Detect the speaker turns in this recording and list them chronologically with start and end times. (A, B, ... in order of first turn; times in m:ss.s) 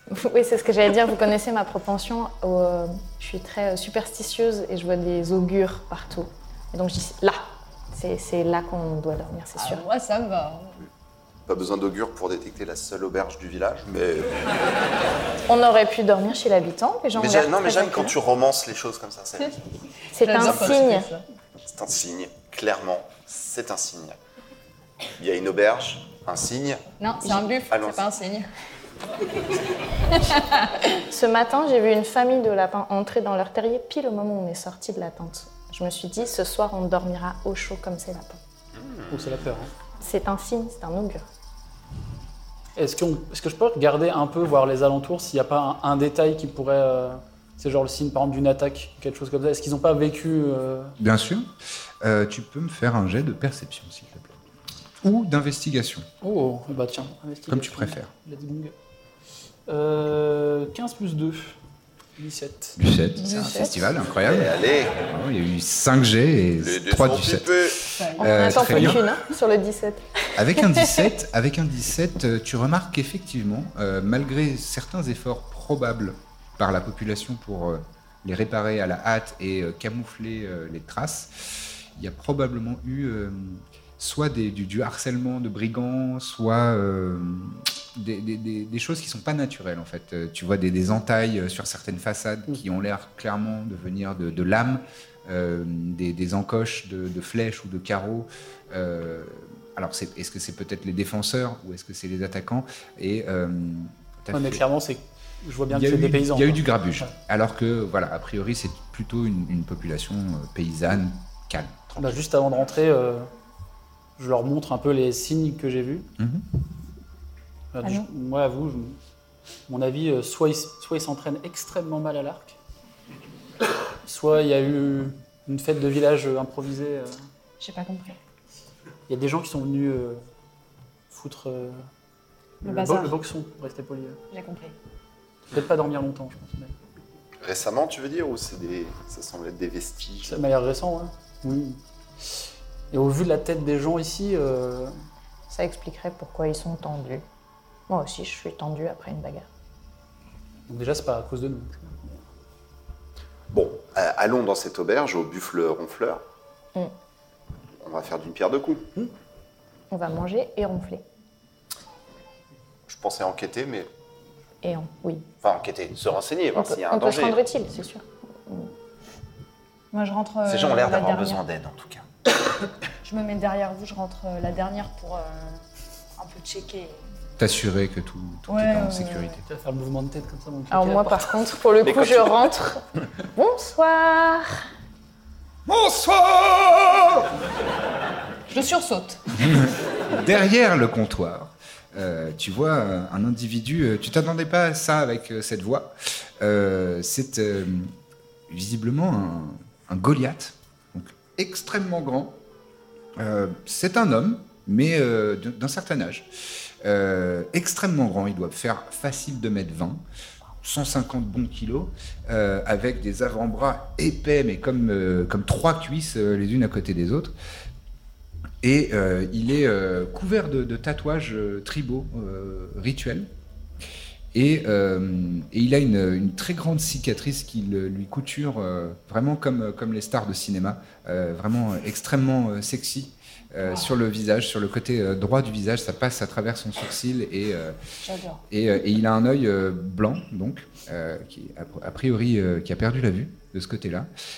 0:00.1-0:09.8 A
0:09.6-0:10.8 B
0:11.5-0:14.5 C
0:15.5-0:18.2 A
0:17.2-0:19.6 C
0:20.1-0:21.1 A
0:20.2-0:21.2 B
0:20.5-0:20.7 C
0:21.7-0:24.2 C
0:25.2-0:28.1 C
0:27.0-0:28.5 B
0:31.1-0:38.4 A
0:39.1-0:39.7 D
0:40.0-0:41.2 A
0:42.8-0:51.0 D
0:51.0-0:51.5 E
0:52.0-0:54.4 E
0:55.0-0:56.1 E
0:56.2-0:58.7 D
0:57.5-0:58.1 E
0:59.7-1:01.6 D
1:02.2-1:02.8 D
1:02.8-1:09.0 E
1:03.2-1:03.7 A
1:04.0-1:05.0 C
1:06.6-1:07.9 C
1:07.9-1:08.4 B
1:08.2-1:10.8 A
1:08.6-1:09.0 D
1:10.4-1:44.6 E
1:44.3-1:47.1 D
1:45.7-1:52.2 E
1:52.0-1:53.3 D
1:54.2-1:56.1 D
1:56.2-1:56.4 E
1:57.7-1:59.0 D
1:59.7-2:02.6 D
2:04.1-2:07.3 D
2:07.6-2:08.2 B
2:09.1-2:10.2 D
2:11.1-2:11.9 D
2:12.6-2:14.2 D
2:12.6-2:13.2 B
2:14.3-2:14.8 B
2:15.5-2:16.7 D
2:17.4-2:20.4 C
2:20.2-2:22.4 D
2:22.9-2:24.9 D
2:25.5-2:27.2 A
2:27.9-2:29.5 A
2:30.7-2:32.2 D
2:33.5-2:36.2 C
2:37.8-2:38.9 C
2:39.9-2:41.0 A
2:42.9-2:43.9 C
2:44.6-2:45.2 A
2:45.4-2:47.4 C
2:46.6-2:48.7 A
2:49.9-2:51.4 B
2:50.4-2:52.1 C
2:53.0-2:55.6 B
2:56.2-2:57.0 B
2:57.4-2:59.4 E
2:58.5-2:59.4 B
2:59.5-3:01.2 D
3:00.7-3:02.8 A
3:01.8-3:02.5 C
3:03.4-3:04.6 A
3:05.7-3:07.3 E
3:08.5-3:09.2 B
3:09.4-3:17.9 E
3:18.5-3:22.4 E
3:23.2-3:30.0 E
3:30.6-3:37.3 E
3:38.6-3:43.3 E
3:44.3-3:57.8 E
3:58.0-3:58.4 B
3:58.5-4:04.1 E